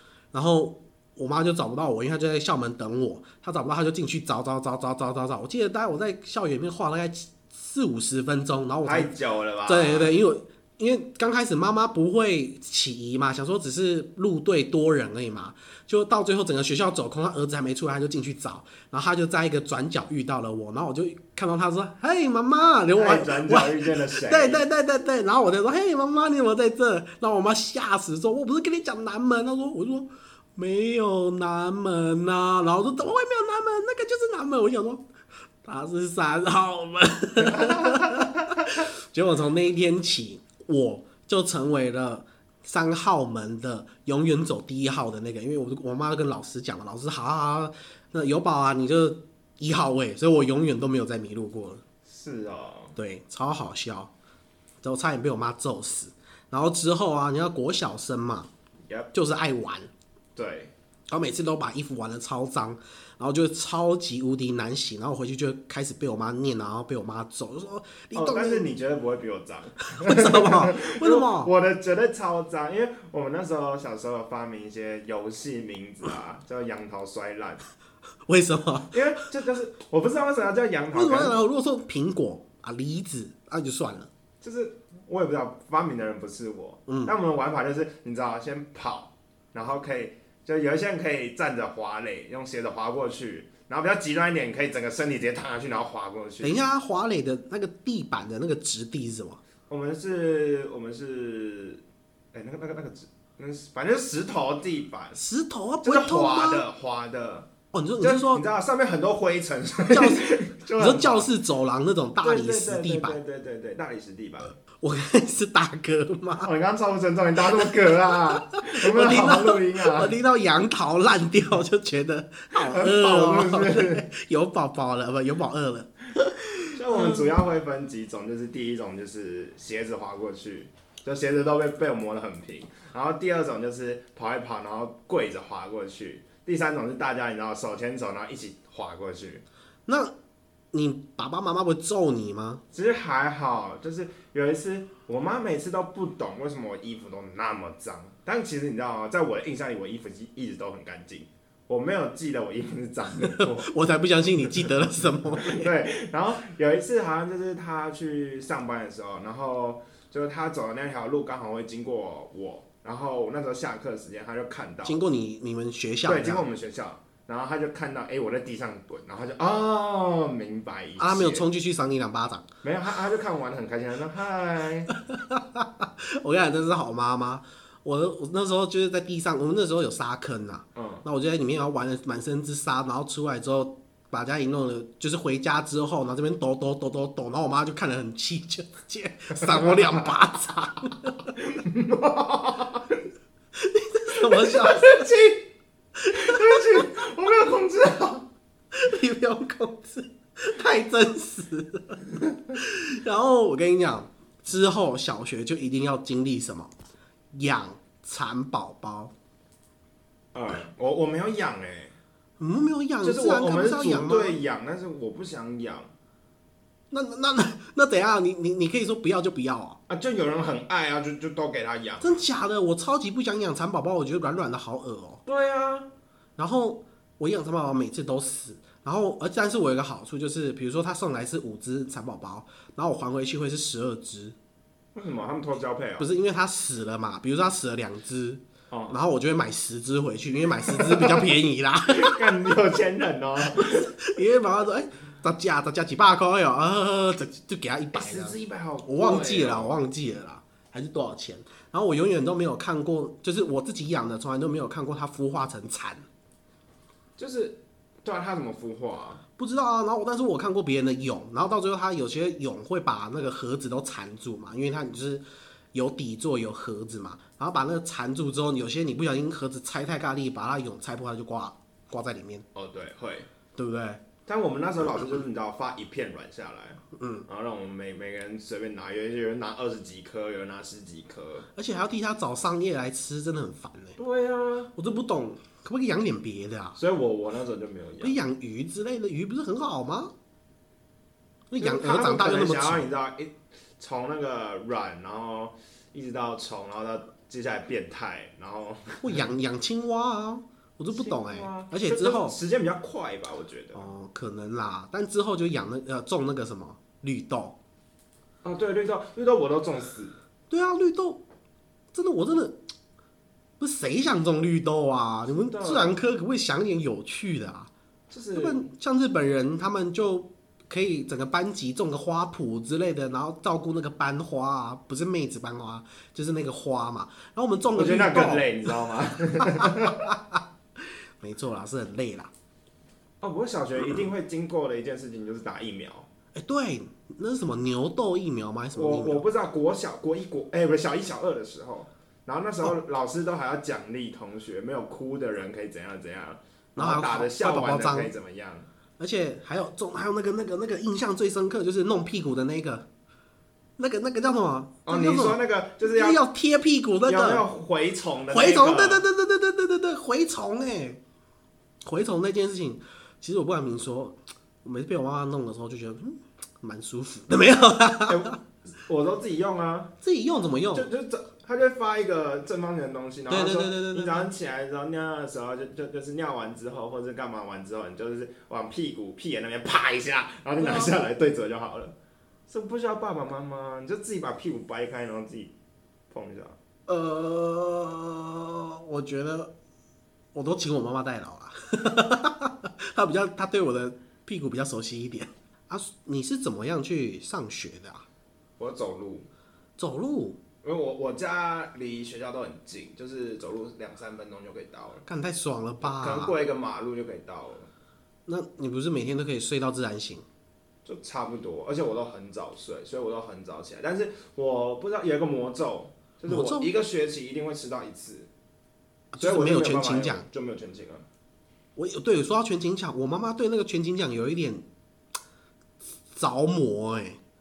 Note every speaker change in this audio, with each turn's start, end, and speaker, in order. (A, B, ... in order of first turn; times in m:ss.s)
0:00.3-0:09.1 A
0:08.8-0:10.2 B
0:09.6-0:35.0 A
0:22.9-0:24.6 B
0:35.6-0:51.8 A
0:37.5-0:38.6 B
0:52.0-0:53.0 B
0:53.0-0:54.1 A
0:54.8-0:58.5 A
0:59.1-0:59.9 A
1:00.4-1:00.7 B
1:01.1-1:08.7 A
1:08.1-1:17.6 B
1:09.9-1:11.5 A
1:18.3-1:19.0 A
1:18.9-1:21.4 B
1:20.9-1:24.1 A
1:24.4-1:36.6 B
1:26.9-1:27.1 A
1:36.4-1:39.4 A
1:39.7-1:41.8 B
1:42.3-1:45.2 B
1:45.2-1:46.7 A
1:45.8-1:51.3 B
1:47.7-1:48.4 A
1:49.9-1:53.2 A
1:52.2-1:54.6 B
1:54.8-1:56.5 A
1:56.4-2:00.2 B
1:58.6-2:07.3 A
2:02.5-2:04.0 B
2:06.7-2:19.4 B
2:19.9-2:20.1 A
2:20.7-2:22.6 A
2:22.7-2:33.7 B
2:33.2-2:35.7 A
2:35.4-2:45.0 B
2:44.8-2:46.5 A
2:46.0-2:51.4 B
2:51.0-2:52.4 A
2:52.6-2:54.9 B
2:54.9-3:11.3 A
3:00.7-3:01.0 B
3:09.3-3:10.1 B
3:11.3-3:13.0 B
3:13.5-3:15.0 A
3:14.1-3:15.5 B
3:16.0-3:18.3 B
3:16.1-3:16.8 A
3:18.7-3:22.0 A
3:22.5-3:26.7 A
3:27.3-3:29.1 A
3:30.3-3:31.9 B
3:32.4-3:34.4 A
3:33.0-3:35.9 B
3:36.9-3:39.8 A
3:39.9-3:42.2 B
3:42.0-3:45.2 A
3:45.2-3:45.9 B
3:46.4-3:54.3 A
3:54.9-3:56.1 B
3:56.0-4:02.5 A
3:58.7-3:59.0 B
4:00.7-4:01.2 B
4:01.9-4:03.9 B
4:03.6-4:16.0 A
4:07.9-4:09.8 B
4:17.2-4:19.2 B
4:19.4-4:32.4 A
4:32.5-4:33.3 B
4:33.5-4:34.0 A
4:34.2-4:41.5 B
4:36.9-4:37.2 A
4:41.5-4:44.0 A
4:44.0-4:44.7 B
4:44.8-4:46.8 A
4:46.8-4:48.2 B
4:48.0-4:50.1 A
4:51.5-4:52.8 A
4:51.6-4:59.2 B
4:59.0-5:02.4 A
5:00.9-5:03.9 B
5:03.7-5:07.6 A
5:08.4-5:10.2 B
5:10.5-5:11.2 A
5:11.9-5:12.6 A
5:13.6-5:17.7 A
5:15.4-5:16.0 B
5:18.1-5:18.7 B
5:18.3-5:28.6 A
5:27.7-5:30.1 B
5:29.4-5:30.4 A
5:31.2-5:32.3 A
5:33.2-5:36.1 B
5:36.3-5:39.2 A
5:38.7-5:48.7 B
5:46.8-5:48.1 A
5:49.0-5:52.9 A
5:53.8-5:57.4 A
5:54.8-5:56.2 B
5:57.0-5:59.0 B
5:58.3-6:01.0 A
6:01.8-6:08.3 A
6:08.1-6:09.9 B
6:10.0-6:10.9 A
6:10.7-6:21.9 B
6:13.3-6:14.3 A
6:20.6-6:21.0 A
6:22.5-6:25.5 B
6:26.1-6:26.6 B
6:26.9-6:29.5 A
6:30.3-6:38.0 A
6:38.6-6:39.3 B
6:39.8-6:40.4 A
6:40.6-6:45.0 B
6:45.0-6:46.3 A
6:45.8-6:47.7 B
6:48.3-6:50.2 A
6:50.8-6:58.3 B
6:56.3-6:56.7 A
6:59.1-7:00.2 A
6:59.2-7:01.0 B
7:01.8-7:04.6 A
7:06.1-7:07.2 A